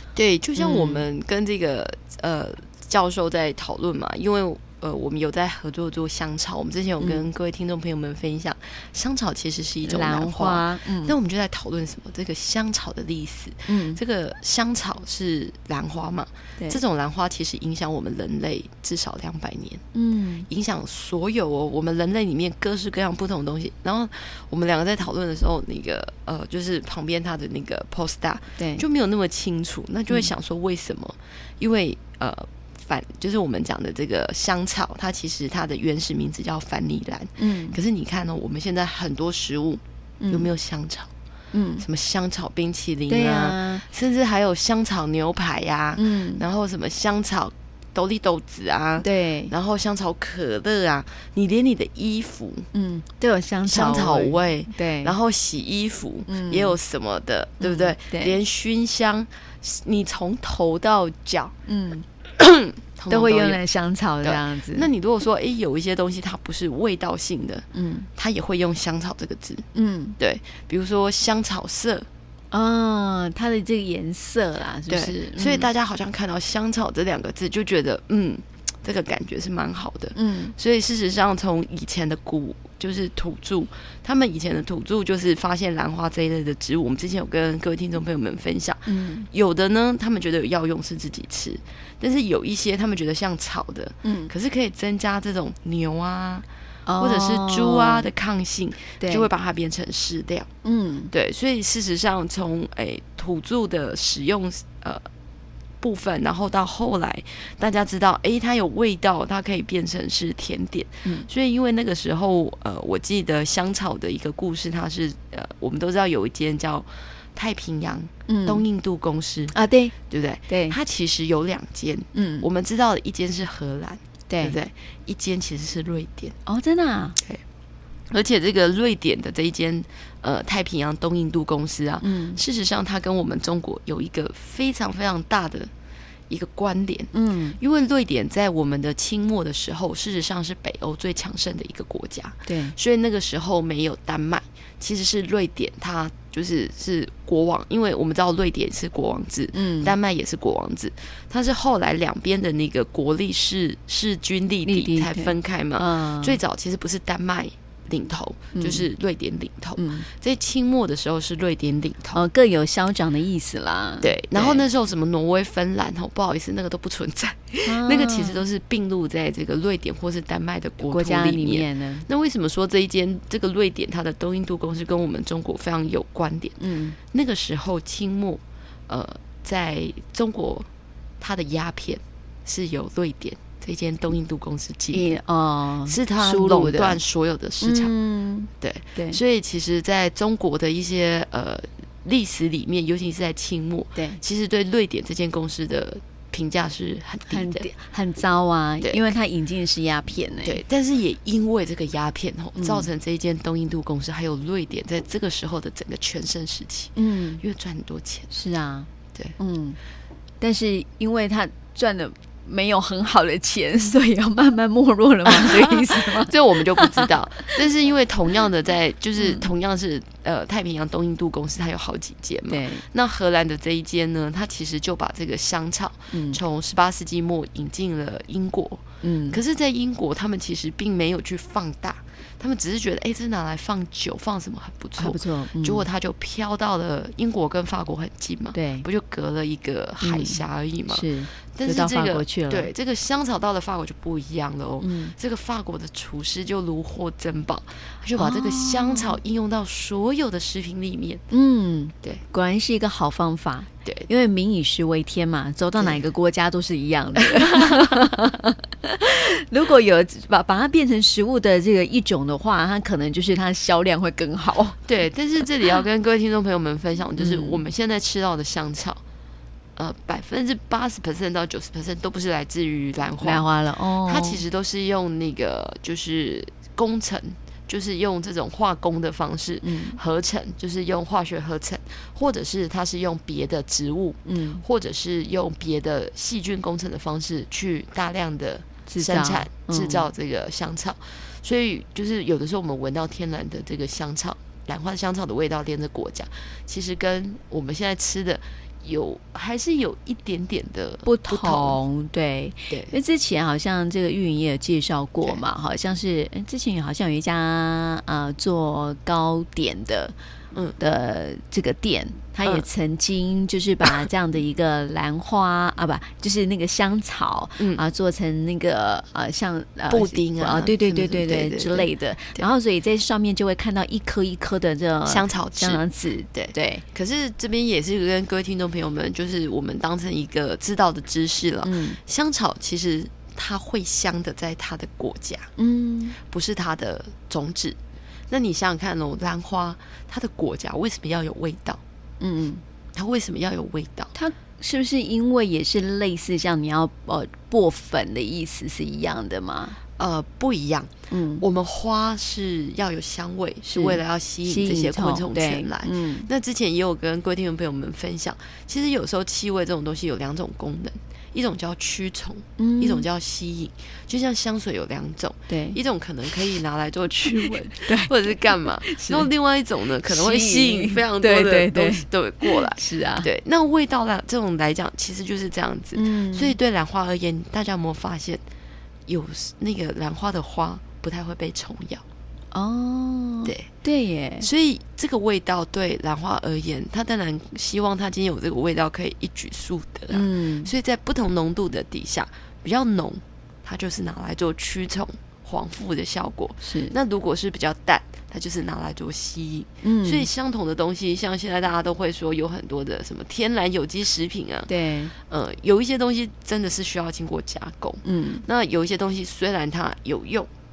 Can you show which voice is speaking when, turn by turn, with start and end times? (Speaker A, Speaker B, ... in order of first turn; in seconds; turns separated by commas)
Speaker A: 0.1-19.8, Speaker B: 0.6-1.0, Speaker B: 7.0-7.3, Speaker B: 9.8-11.2, Speaker B: 13.7-14.0, Speaker B: 19.9-20.5, Speaker A: 20.5-41.1, Speaker B: 28.6-28.8, Speaker B: 37.4-37.8, Speaker B: 40.2-40.5, Speaker B: 41.5-41.9, Speaker A: 41.8-52.7, Speaker B: 43.1-43.8, Speaker B: 46.0-46.4, Speaker B: 49.0-49.5, Speaker B: 52.7-55.1, Speaker A: 53.7-61.5, Speaker B: 56.3-56.8, Speaker B: 57.6-58.3, Speaker B: 61.7-62.1, Speaker A: 62.4-63.6, Speaker B: 63.1-64.9, Speaker A: 64.2-67.7, Speaker B: 67.7-68.1, Speaker A: 68.2-69.7, Speaker B: 69.8-70.2, Speaker A: 70.2-72.1, Speaker B: 72.5-75.7, Speaker A: 74.9-96.5, Speaker B: 80.2-80.5, Speaker B: 88.9-89.3, Speaker B: 94.0-94.3, Speaker B: 96.9-98.1, Speaker A: 97.0-100.5, Speaker B: 99.0-99.3, Speaker B: 100.6-101.1, Speaker A: 101.1-105.1, Speaker A: 105.8-126.4, Speaker B: 118.3-118.7, Speaker B: 119.5-119.9, Speaker B: 120.5-120.8, Speaker B: 122.2-122.5, Speaker B: 124.3-124.6, Speaker B: 126.5-127.2, Speaker A: 128.1-135.7, Speaker B: 132.0-132.4, Speaker A: 136.3-162.2, Speaker B: 137.1-137.6, Speaker B: 142.5-142.8, Speaker B: 149.5-149.9, Speaker B: 154.7-156.4, Speaker B: 158.6-158.9, Speaker B: 159.8-160.1, Speaker B: 162.1-164.6, Speaker A: 164.0-180.7, Speaker B: 167.6-168.4, Speaker B: 170.8-172.1, Speaker B: 176.6-177.0, Speaker A: 181.2-185.1, Speaker B: 184.9-187.0, Speaker A: 185.9-187.9, Speaker B: 187.6-189.2, Speaker A: 188.6-197.7, Speaker B: 197.3-200.6, Speaker A: 200.4-208.3, Speaker B: 202.6-202.9, Speaker B: 207.0-207.4, Speaker B: 208.3-209.8, Speaker B: 210.4-217.6, Speaker A: 215.3-251.2, Speaker B: 219.2-219.4, Speaker B: 222.5-222.8, Speaker B: 226.1-226.4, Speaker B: 229.0-229.4, Speaker B: 235.0-235.9, Speaker B: 238.5-238.8, Speaker B: 240.0-242.7, Speaker B: 244.8-245.1, Speaker B: 248.2-249.2, Speaker B: 251.3-264.8, Speaker A: 257.2-258.1, Speaker A: 264.9-269.0, Speaker B: 267.2-267.6, Speaker A: 269.8-273.5, Speaker B: 273.2-274.4, Speaker A: 274.0-301.8, Speaker B: 279.6-280.0, Speaker B: 284.3-284.6, Speaker B: 288.9-290.1, Speaker B: 301.1-310.1, Speaker B: 310.8-326.8, Speaker A: 317.6-317.8, Speaker A: 319.9-322.4, Speaker A: 325.1-325.8, Speaker A: 326.4-335.5, Speaker B: 331.6-332.0, Speaker B: 335.6-336.2, Speaker A: 336.2-337.8, Speaker A: 338.3-341.8, Speaker B: 342.2-342.6, Speaker A: 342.9-344.1, Speaker B: 344.1-349.8, Speaker A: 350.0-378.4, Speaker B: 351.1-351.4, Speaker B: 353.7-356.3, Speaker B: 362.6-363.1, Speaker B: 365.5-365.8, Speaker B: 367.7-369.3, Speaker B: 370.1-373.3, Speaker B: 375.9-376.6, Speaker A: 379.1-382.0, Speaker B: 382.5-384.5, Speaker A: 384.4-410.5, Speaker B: 390.1-390.7, Speaker B: 396.6-396.9, Speaker B: 399.8-400.3, Speaker B: 404.7-405.1, Speaker B: 408.0-408.4